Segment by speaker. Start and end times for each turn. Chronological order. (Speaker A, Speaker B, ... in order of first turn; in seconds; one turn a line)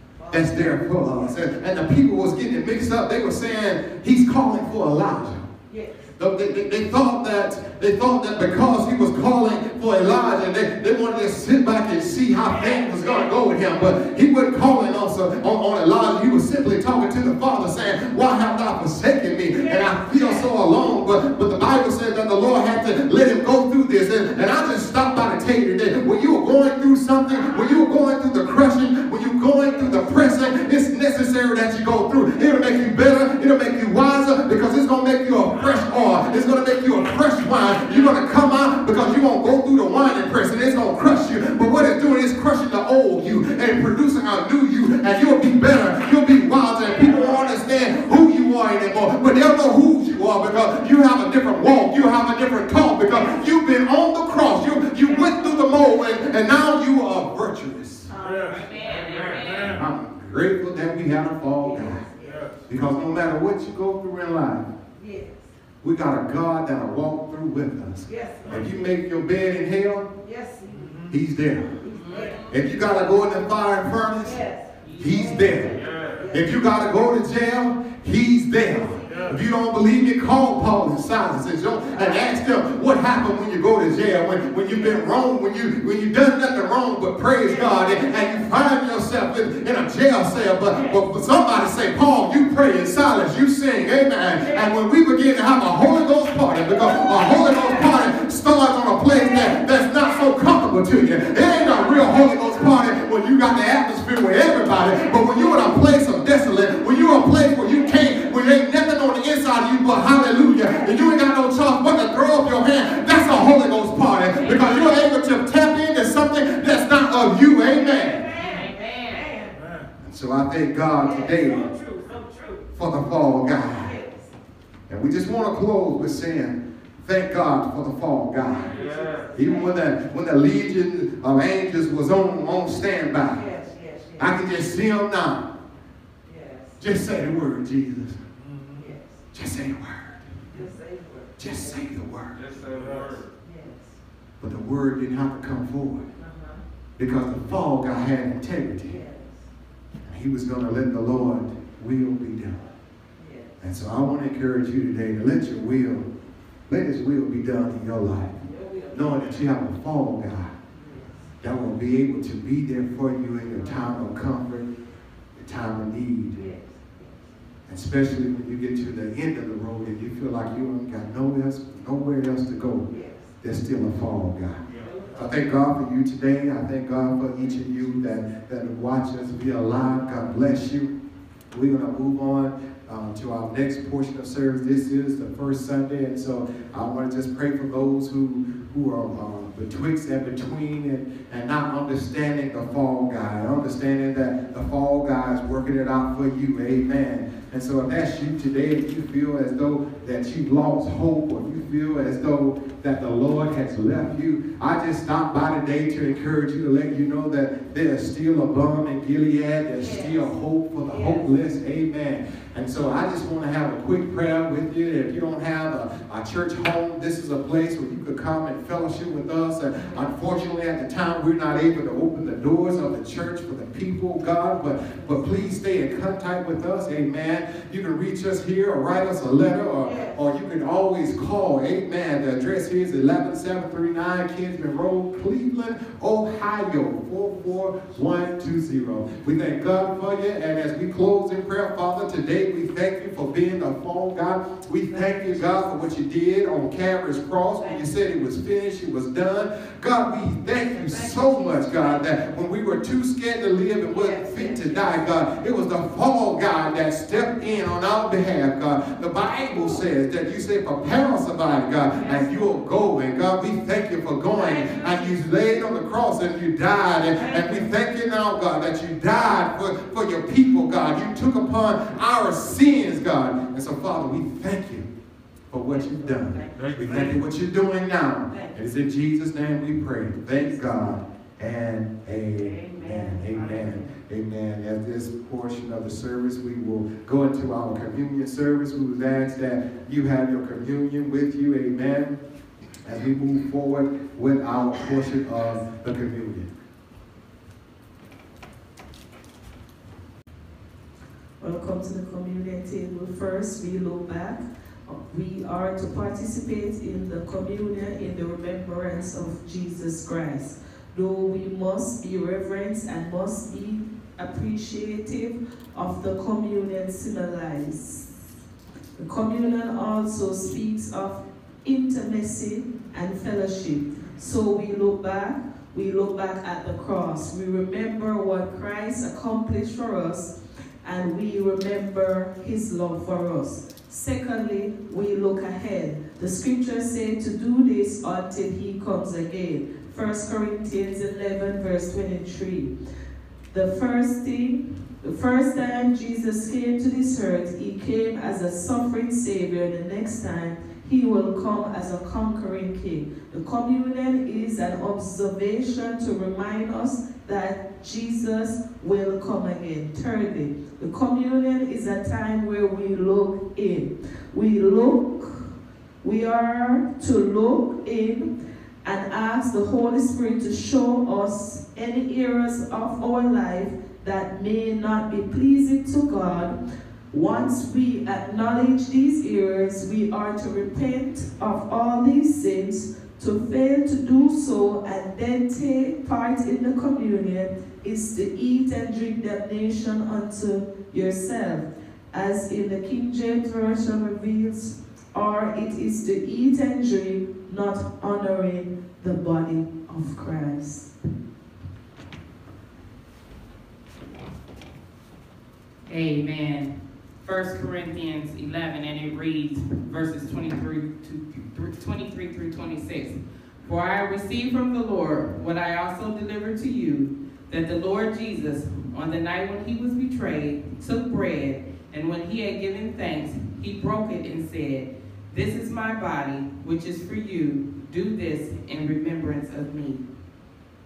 Speaker A: 0.2-1.4
Speaker B: 0.3-5.5
Speaker A: 5.7-6.1
Speaker B: 6.2-58.1
Speaker A: 12.4-14.0
Speaker A: 19.5-20.5
Speaker A: 46.8-47.7
Speaker A: 53.1-53.4
Speaker A: 55.1-55.5
Speaker A: 58.1-58.8
Speaker C: 58.5-59.7
Speaker B: 59.6-62.1
Speaker A: 61.6-62.5
Speaker B: 62.6-64.7
Speaker A: 64.9-65.5
Speaker B: 65.8-70.1
Speaker A: 68.0-68.9
Speaker A: 70.2-71.0
Speaker B: 71.1-71.8
Speaker A: 71.8-72.4
Speaker C: 71.9-72.4
Speaker B: 72.4-74.4
Speaker A: 74.2-76.5
Speaker B: 75.0-118.3
Speaker A: 78.8-79.3
Speaker A: 81.9-82.2
Speaker A: 84.7-85.0
Speaker A: 87.4-88.5
Speaker A: 90.7-91.0
Speaker A: 94.4-94.7
Speaker A: 96.9-97.8
Speaker A: 110.6-110.9
Speaker C: 114.4-114.7
Speaker A: 117.7-119.6
Speaker C: 118.4-119.2
Speaker B: 120.0-121.7
Speaker A: 121.0-122.7
Speaker B: 122.7-123.9
Speaker A: 123.6-124.3
Speaker B: 124.9-133.5
Speaker A: 128.5-129.8
Speaker A: 133.2-134.6
Speaker B: 134.2-135.5
Speaker A: 136.2-136.8
Speaker B: 136.8-138.2
Speaker A: 138.7-139.2
Speaker B: 139.3-140.2
Speaker A: 140.5-141.8
Speaker B: 141.4-142.5
Speaker A: 143.4-144.0
Speaker B: 144.4-146.1
Speaker A: 146.2-146.6
Speaker B: 147.0-149.0
Speaker A: 148.8-149.5
Speaker B: 150.0-152.7
Speaker A: 153.2-153.6
Speaker B: 153.6-156.1
Speaker B: 156.7-160.5
Speaker A: 158.4-159.4
Speaker A: 160.7-161.3
Speaker B: 161.4-164.7
Speaker A: 163.5-163.8
Speaker B: 165.3-166.5
Speaker A: 166.3-167.3
Speaker B: 167.7-172.9
Speaker A: 172.9-173.3
Speaker B: 173.4-180.9
Speaker A: 174.7-175.5
Speaker B: 181.5-274.9
Speaker A: 209.8-211.3
Speaker A: 229.8-230.1
Speaker A: 250.5-252.0
Speaker A: 253.9-255.1
Speaker A: 262.0-262.4
Speaker A: 264.4-265.1
Speaker A: 267.2-267.5
Speaker B: 275.5-292.2
Speaker A: 276.0-276.9
Speaker A: 282.4-283.8
Speaker B: 292.8-296.5
Speaker D: 301.4-318.0
Speaker D: 318.9-330.3
Speaker D: 330.8-342.7
Speaker D: 343.5-368.3
Speaker D: 368.8-376.6
Speaker D: 377.1-400.9
Speaker C: 405.9-430.0